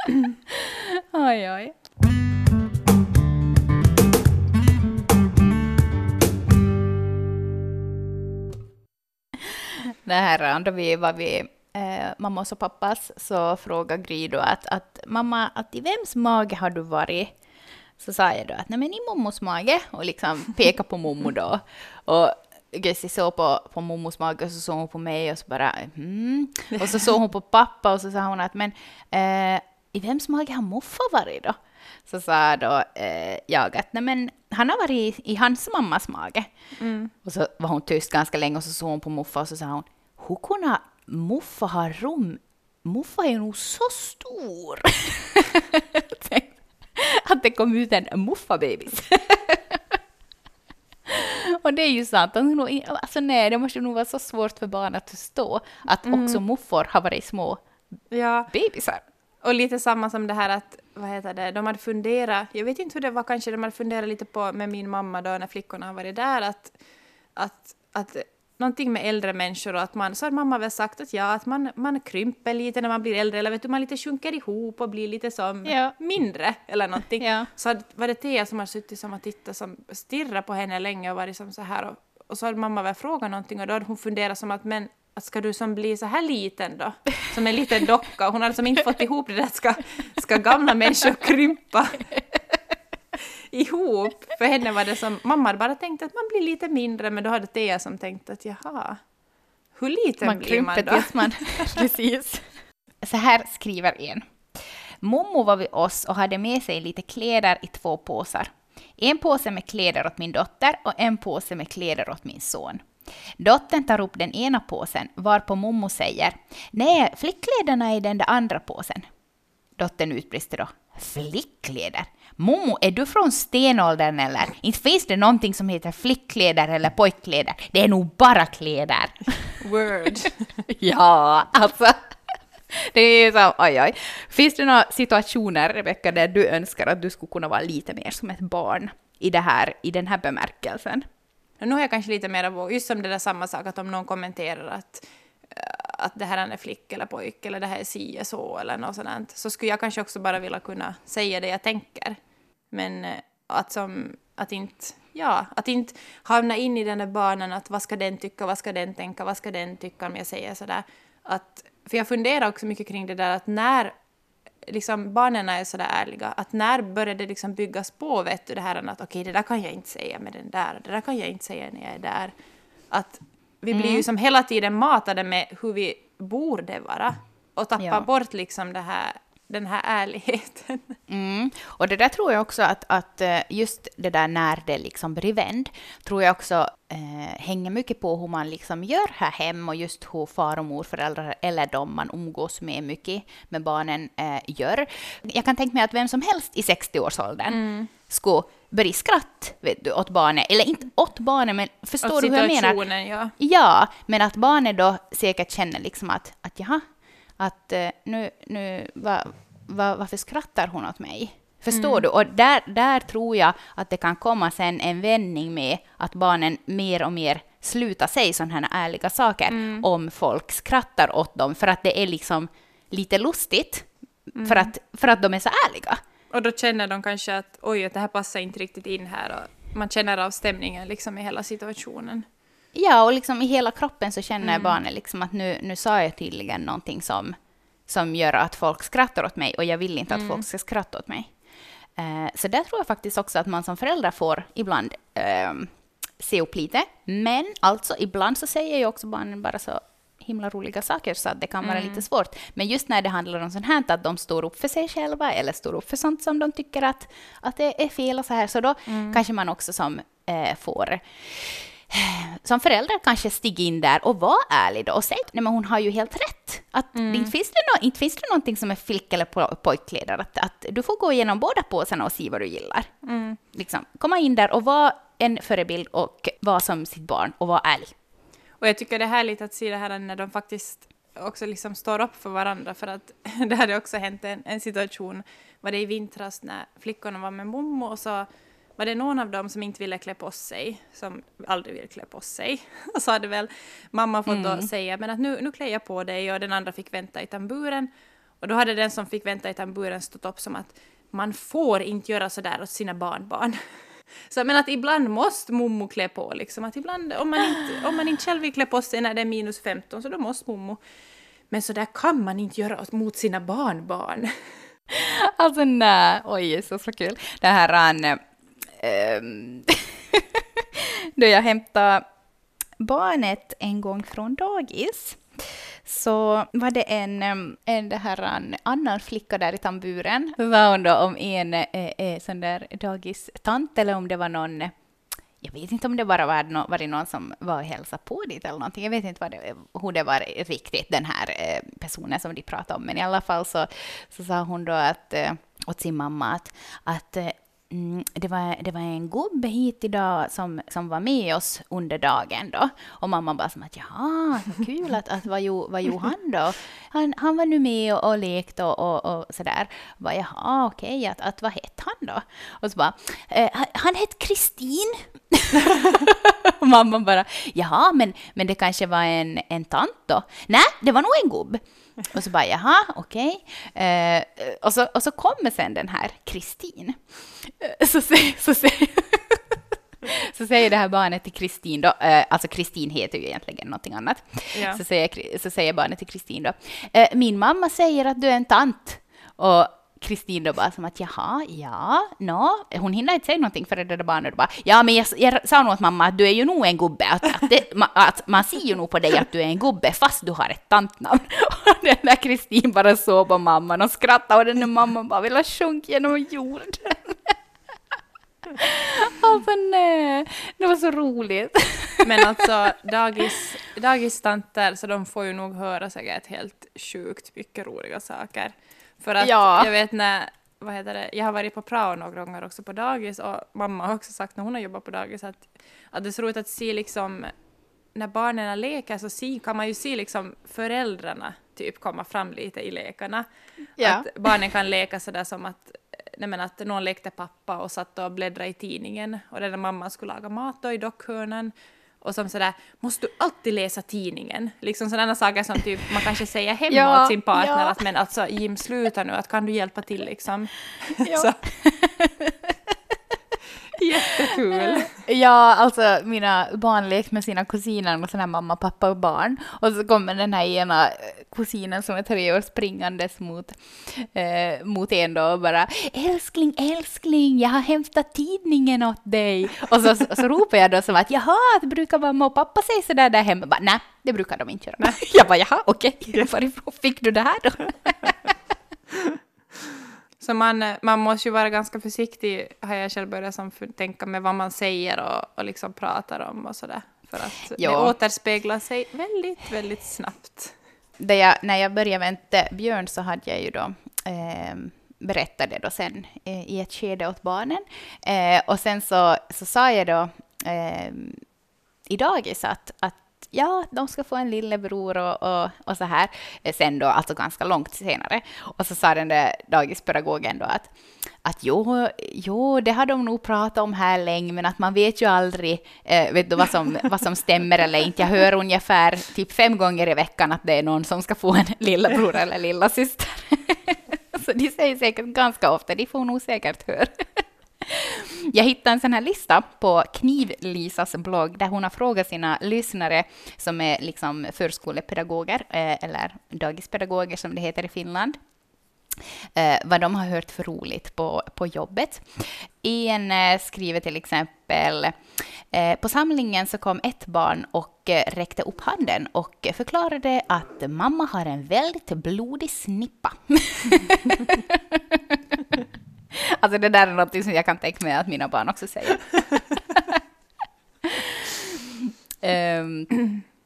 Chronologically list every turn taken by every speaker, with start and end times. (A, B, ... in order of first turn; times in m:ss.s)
0:00.5-0:01.8 A
0:09.6-0:17.3 A
0:18.0-0:36.5 A
0:26.8-0:27.0 B
0:36.8-0:37.1 B
0:37.2-0:50.0 A
0:51.1-0:57.6 A
0:56.1-0:56.4 B
0:58.1-0:58.5 B
0:58.5-0:59.0 A
0:59.4-1:06.8 B
1:07.4-1:32.1 B
1:15.7-1:16.0 A
1:17.2-1:17.5 A
1:33.5-1:39.0 B
1:39.8-1:41.6 B
1:40.2-1:42.5 A
1:43.0-1:52.9 A
1:53.4-1:59.1 A
1:59.8-2:09.6 A
2:09.6-2:10.5 B
2:10.7-2:12.2 A
2:12.7-2:21.1 A
2:21.6-2:32.2 B
2:32.7-2:44.0 B
2:44.7-2:52.3 B
2:52.9-3:01.0 B
2:53.7-2:54.0 A
2:57.8-2:58.1 A
3:01.1-3:22.8 A
3:17.5-3:17.9 B
3:22.0-3:23.3 B
3:23.4-3:26.9 A
3:27.4-3:43.9 A
3:31.7-3:32.0 B
3:39.5-3:39.8 B
3:44.4-3:44.7 B
3:44.4-3:46.0 A
3:46.3-3:52.3 B
3:52.7-4:01.3 A
3:54.4-3:54.8 B
4:00.1-4:00.5 B
4:02.0-4:32.9 A
4:11.6-4:12.0 B
4:18.9-4:19.2 B
4:27.0-4:27.3 B
4:33.0-4:33.4 B
4:33.5-4:38.0 A
4:38.6-4:57.9 B
4:54.3-4:54.7 A
4:58.4-5:03.6 B
5:04.3-5:10.8 B
5:11.5-5:14.3 B
5:14.9-5:18.2 A
5:18.7-5:22.0 A
5:22.8-5:34.7 A
5:35.4-6:47.4 A
6:24.5-6:24.8 B
6:48.6-6:52.4 A
6:52.0-7:07.3 B
6:59.2-6:59.7 A
7:08.0-7:13.3 B
7:13.8-7:14.1 A
7:13.8-7:31.4 B
7:26.7-7:27.8 A
7:31.0-7:32.7 A
7:33.8-7:34.9 B
7:34.5-7:58.3 A
8:00.2-8:10.6 B
8:07.6-8:07.9 A
8:11.0-8:21.2 A
8:21.9-8:30.7 A
8:31.2-8:58.2 A
8:59.4-9:15.6 A
9:16.1-9:20.0 A
9:20.8-9:23.1 A